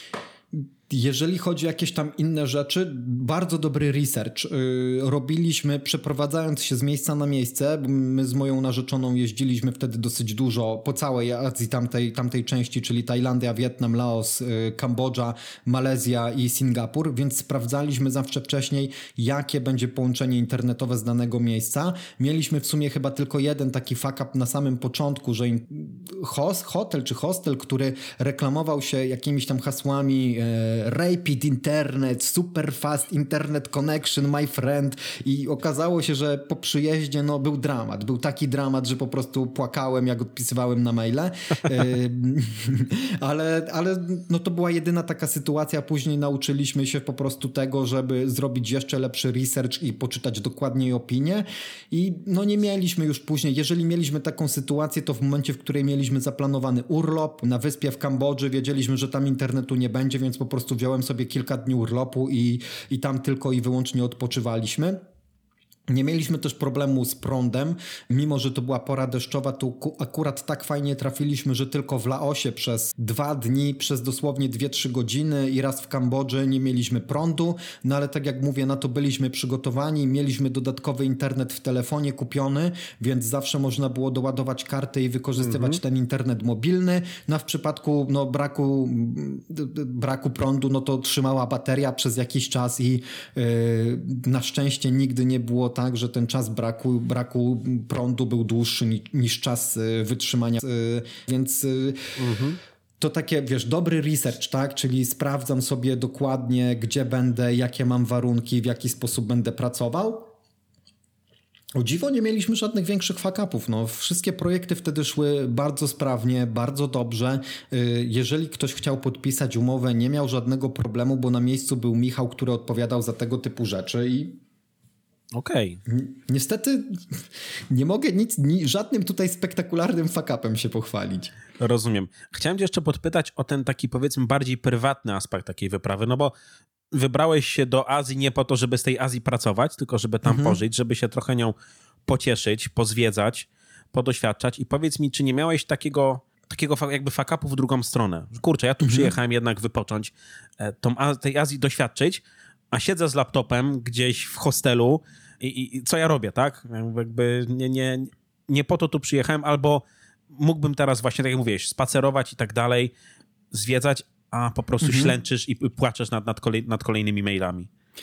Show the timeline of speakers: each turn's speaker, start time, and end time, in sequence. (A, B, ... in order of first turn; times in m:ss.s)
0:00.5-1:05.0 A
1:05.9-1:42.1 A
1:25.4-1:25.8 B
1:42.2-1:42.6 B
1:43.0-1:50.3 A
1:51.8-2:04.4 A
2:05.3-2:05.8 B
2:05.9-2:11.3 A
2:11.6-2:16.3 B
2:16.9-2:21.5 B
2:20.2-2:20.6 A
2:22.1-2:42.9 B
2:28.8-2:29.1 A
2:43.5-2:47.7 B
2:44.8-2:45.1 A